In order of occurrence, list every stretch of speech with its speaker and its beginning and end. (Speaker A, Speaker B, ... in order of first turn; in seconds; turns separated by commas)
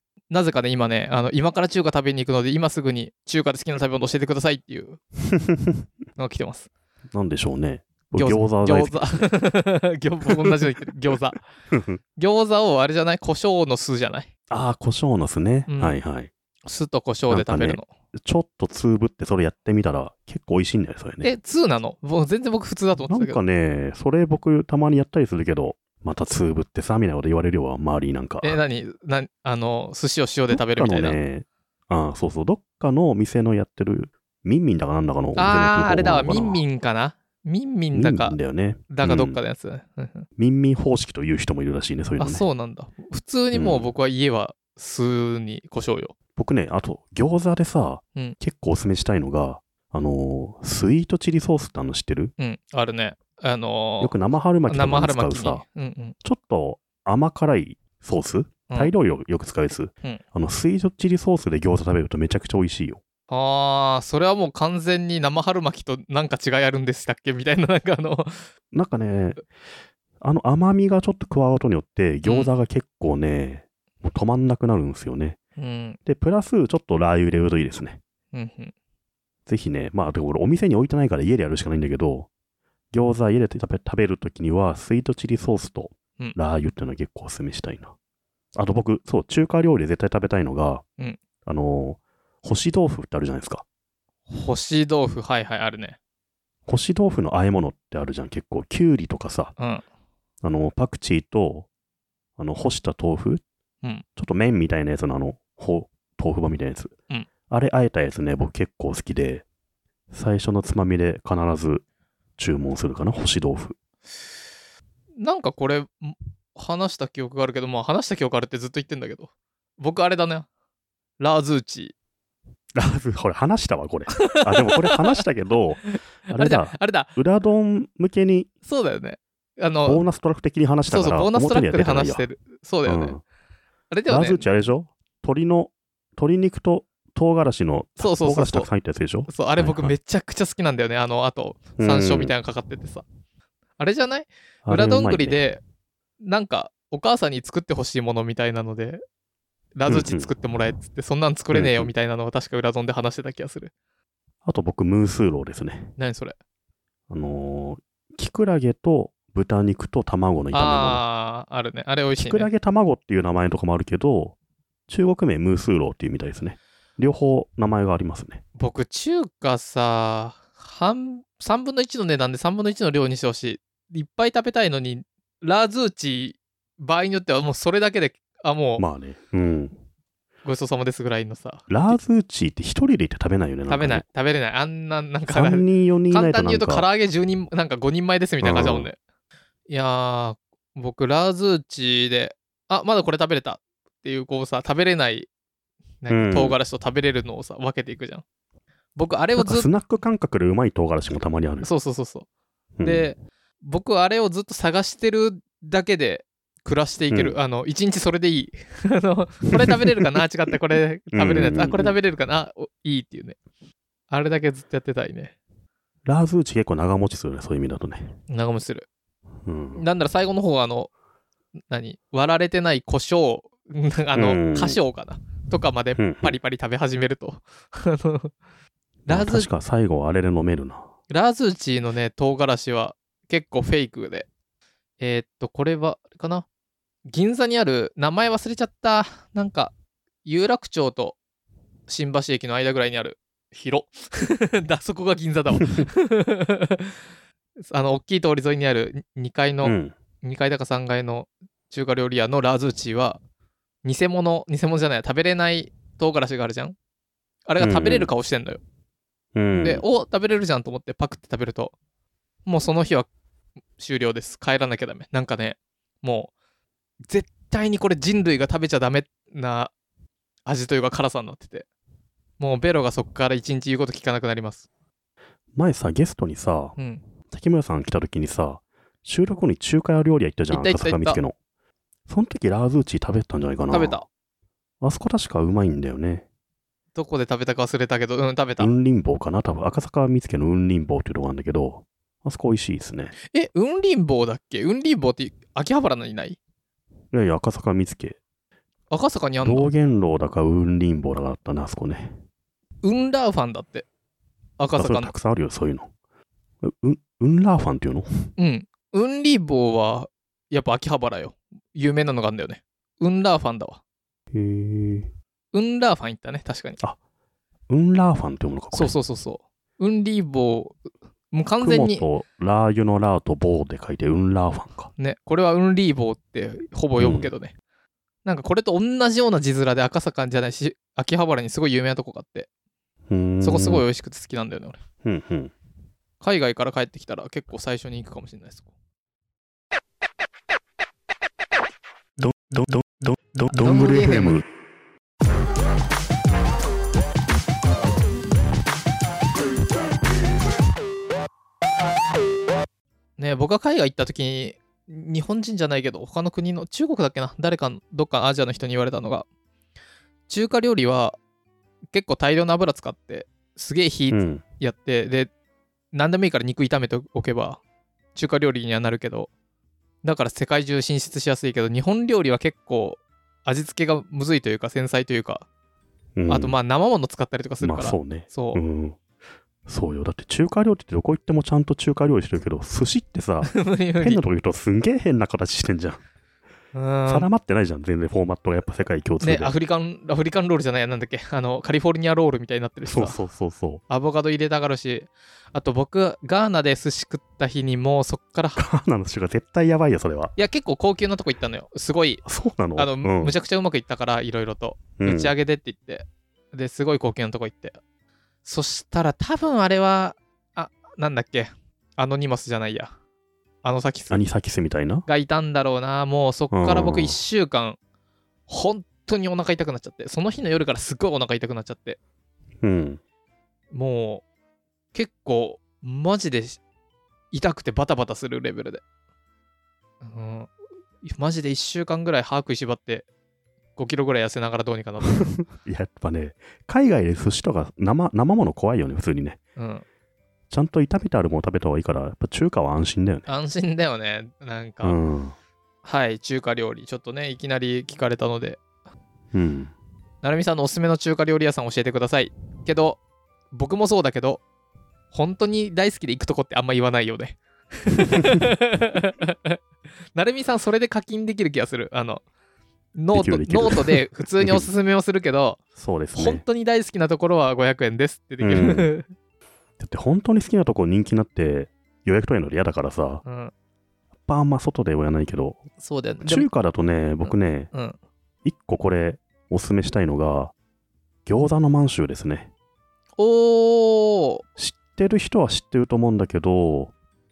Speaker A: 0.3-5.0, Speaker B: 5.3-5.9, Speaker A: 6.2-6.7, Speaker B: 7.1-9.2, Speaker A: 8.2-11.4, Speaker B: 10.3-10.7, Speaker B: 11.7-12.0, Speaker A: 12.2-14.3, Speaker B: 14.5-16.3, Speaker A: 15.7-16.0, Speaker A: 16.6-17.9, Speaker B: 17.3-21.3, Speaker A: 21.2-23.4, Speaker B: 23.0-28.6, Speaker A: 28.4-31.2, Speaker B: 30.5-36.6, Speaker A: 35.4-38.4, Speaker B: 37.9-39.4, Speaker A: 38.9-40.3, Speaker B: 40.4-42.4, Speaker A: 42.2-46.1, Speaker B: 43.5-43.9, Speaker B: 46.4-52.3, Speaker A: 52.4-54.1, Speaker B: 54.0-55.6, Speaker A: 54.7-56.1, Speaker B: 56.2-63.0, Speaker A: 63.3-68.5, Speaker B: 68.7-69.5, Speaker B: 70.2-75.4, Speaker A: 72.2-72.5, Speaker A: 75.6-76.0, Speaker B: 76.0-78.0, Speaker A: 78.3-78.7, Speaker B: 79.5-82.3, Speaker B: 82.9-87.9, Speaker B: 88.5-90.8, Speaker B: 91.4-93.6, Speaker A: 94.3-96.0, Speaker B: 96.7-99.5, Speaker A: 99.6-99.8, Speaker B: 100.4-101.7, Speaker B: 102.4-103.4, Speaker B: 104.2-106.9, Speaker B: 107.5-109.4, Speaker B: 110.1-111.8, Speaker B: 112.4-113.8, Speaker A: 115.2-120.5, Speaker A: 121.2-121.9, Speaker B: 122.7-128.5, Speaker A: 124.1-125.2, Speaker A: 125.9-127.1, Speaker A: 128.6-130.0, Speaker B: 129.8-132.3, Speaker A: 130.9-133.2, Speaker B: 132.8-133.2, Speaker A: 133.9-134.4, Speaker B: 134.1-139.9, Speaker A: 138.0-138.7, Speaker A: 139.3-143.0, Speaker B: 141.8-142.3, Speaker A: 143.8-145.6, Speaker B: 144.6-145.4, Speaker A: 146.2-149.0, Speaker A: 149.8-153.7, Speaker B: 149.9-150.3, Speaker B: 151.5-151.9, Speaker B: 154.4-155.9, Speaker A: 156.0-156.3, Speaker B: 157.1-161.0, Speaker A: 160.5-162.5, Speaker B: 162.2-164.3, Speaker B: 164.9-168.4, Speaker A: 168.6-178.8, Speaker B: 178.8-179.7, Speaker A: 180.4-182.0, Speaker B: 181.7-184.1, Speaker A: 183.7-189.0, Speaker B: 185.3-186.8, Speaker B: 188.4-188.9, Speaker A: 189.7-195.3, Speaker A: 196.0-198.2, Speaker B: 196.1-196.6, Speaker A: 198.9-199.7, Speaker B: 199.3-201.7, Speaker A: 201.6-202.3, Speaker B: 202.8-203.1, Speaker A: 202.8-213.4, Speaker B: 207.1-207.4, Speaker B: 211.1-212.0, Speaker A: 214.1-215.3, Speaker B: 216.0-218.1, Speaker A: 218.3-218.8, Speaker B: 219.4-219.8, Speaker A: 219.8-220.9, Speaker A: 221.7-228.3, Speaker B: 224.1-224.8, Speaker B: 226.0-226.4, Speaker A: 229.1-229.5, Speaker B: 229.1-230.9, Speaker A: 231.1-234.3, Speaker A: 235.0-236.4, Speaker A: 237.1-239.7, Speaker A: 240.2-241.2, Speaker A: 241.9-247.0, Speaker B: 245.6-245.9, Speaker A: 247.7-253.2, Speaker B: 249.6-249.9, Speaker A: 253.8-256.8, Speaker A: 257.5-258.6, Speaker B: 257.6-258.1, Speaker B: 259.3-259.8, Speaker A: 259.6-261.7, Speaker A: 262.4-263.1, Speaker A: 263.8-266.3, Speaker A: 267.1-269.7, Speaker A: 270.4-271.7, Speaker A: 272.4-274.6, Speaker B: 275.5-276.8, Speaker A: 276.8-277.0, Speaker B: 277.3-281.4, Speaker A: 280.5-281.2, Speaker B: 282.1-284.0, Speaker A: 283.7-284.1, Speaker B: 284.8-286.2, Speaker A: 286.9-288.7, Speaker B: 288.6-293.1, Speaker A: 293.3-296.4, Speaker B: 297.1-298.2, Speaker A: 298.9-299.7, Speaker B: 299.4-302.1, Speaker A: 302.8-303.9, Speaker A: 304.6-305.1, Speaker B: 304.8-305.9, Speaker B: 306.6-308.3, Speaker A: 308.4-313.8, Speaker B: 314.3-315.1, Speaker A: 315.5-316.8, Speaker B: 317.7-318.9, Speaker A: 318.7-320.8, Speaker A: 321.3-322.1, Speaker B: 321.6-324.9, Speaker A: 324.9-327.5, Speaker B: 327.0-327.3, Speaker A: 328.2-332.5, Speaker B: 333.1-333.9, Speaker A: 333.4-334.8, Speaker B: 335.0-335.5, Speaker A: 336.2-338.7, Speaker B: 342.2-344.4, Speaker A: 343.6-344.4, Speaker A: 353.2-359.3, Speaker A: 360.3-361.2, Speaker A: 361.9-365.3, Speaker B: 364.1-364.4, Speaker A: 365.9-367.6, Speaker A: 368.1-369.3, Speaker A: 370.0-375.4, Speaker B: 376.1-376.6, Speaker A: 376.3-378.6, Speaker B: 377.6-379.0, Speaker B: 379.6-386.0, Speaker A: 383.5-384.2, Speaker A: 386.7-387.3, Speaker B: 387.1-389.5, Speaker A: 389.2-393.2, Speaker B: 392.9-393.8, Speaker A: 393.9-398.6, Speaker B: 398.6-400.3, Speaker A: 400.4-402.2, Speaker B: 402.2-403.4, Speaker A: 402.8-407.8, Speaker B: 405.0-405.3, Speaker A: 408.4-412.9, Speaker A: 413.6-414.2, Speaker B: 414.1-415.1, Speaker A: 415.1-417.8, Speaker B: 416.5-417.2, Speaker A: 418.5-422.0, Speaker B: 422.6-423.0, Speaker A: 423.7-424.2, Speaker A: 424.9-426.6, Speaker A: 427.3-428.8, Speaker A: 430.0-430.5, Speaker A: 431.0-433.1, Speaker A: 433.8-435.4, Speaker B: 435.2-439.4, Speaker A: 439.6-439.8, Speaker B: 440.5-443.3, Speaker A: 443.3-445.0, Speaker B: 444.8-445.4, Speaker A: 445.8-448.6, Speaker B: 449.3-449.7, Speaker A: 450.2-453.0, Speaker A: 453.5-454.4, Speaker A: 455.1-459.6, Speaker B: 458.1-458.4, Speaker A: 460.1-462.2, Speaker A: 462.9-465.6, Speaker B: 463.1-464.7, Speaker B: 465.8-466.4, Speaker A: 466.1-469.1, Speaker B: 468.4-468.9, Speaker B: 469.8-473.2, Speaker A: 473.2-473.5, Speaker B: 474.2-475.6, Speaker A: 475.8-476.5, Speaker B: 476.2-477.7, Speaker A: 477.2-478.0, Speaker B: 478.4-480.5, Speaker B: 481.2-482.5, Speaker A: 483.2-484.4, Speaker B: 484.6-486.9